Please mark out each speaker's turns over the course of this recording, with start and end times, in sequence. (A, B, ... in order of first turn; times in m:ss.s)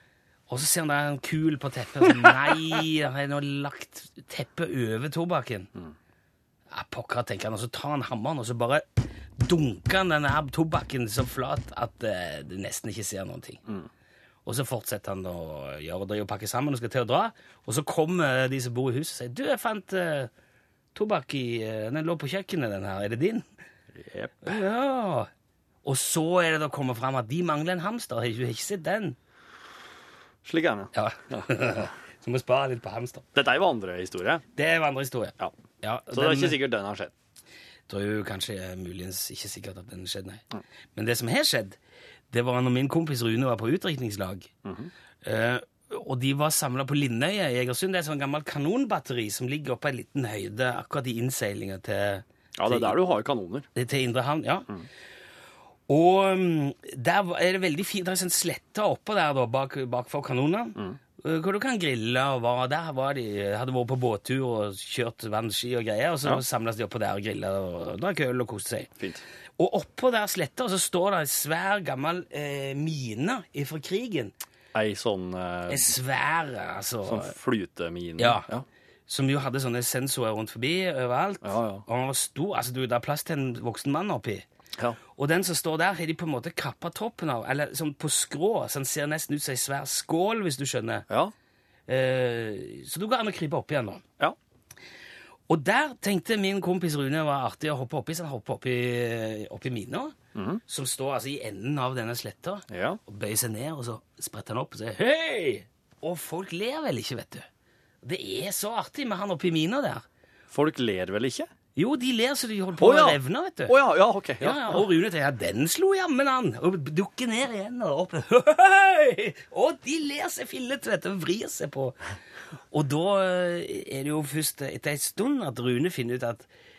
0:00.5-0:05.7 A
0:06.7-0:08.8 A
0:09.4-0:13.6 A
0:14.4-0:20.3 A
0:20.9-0:23.4 A
0:23.9-0:24.6 B
0:24.4-0:25.3 A
0:25.8-0:29.2 A
0:30.4-0:31.5 B
0:30.9-0:33.2 A
0:33.3-0:34.4 B
0:34.6-0:36.6 A
0:36.1-0:37.1 B
0:37.9-0:41.8 A
0:42.3-0:44.5 A
0:44.6-0:44.9 B
0:45.2-0:53.0 A
0:52.6-0:53.7 B
0:53.7-0:54.7 A
0:55.9-1:08.9 A
1:09.6-1:14.3 A
1:14.7-1:16.0 B
1:15.7-1:17.3 A
1:17.0-1:18.6 B
1:18.2-1:18.5 A
1:19.1-1:24.4 A
1:21.4-1:21.8 B
1:25.1-1:31.0 A
1:31.9-1:34.0 A
1:35.5-1:40.2 A
1:40.3-1:40.6 B
1:40.7-1:47.4 A
1:42.7-1:43.0 B
1:48.0-1:50.0 A
1:50.5-1:51.5 B
1:51.8-1:53.8 A
1:52.8-1:54.8 B
1:54.4-2:02.0 A
2:02.7-2:06.5 A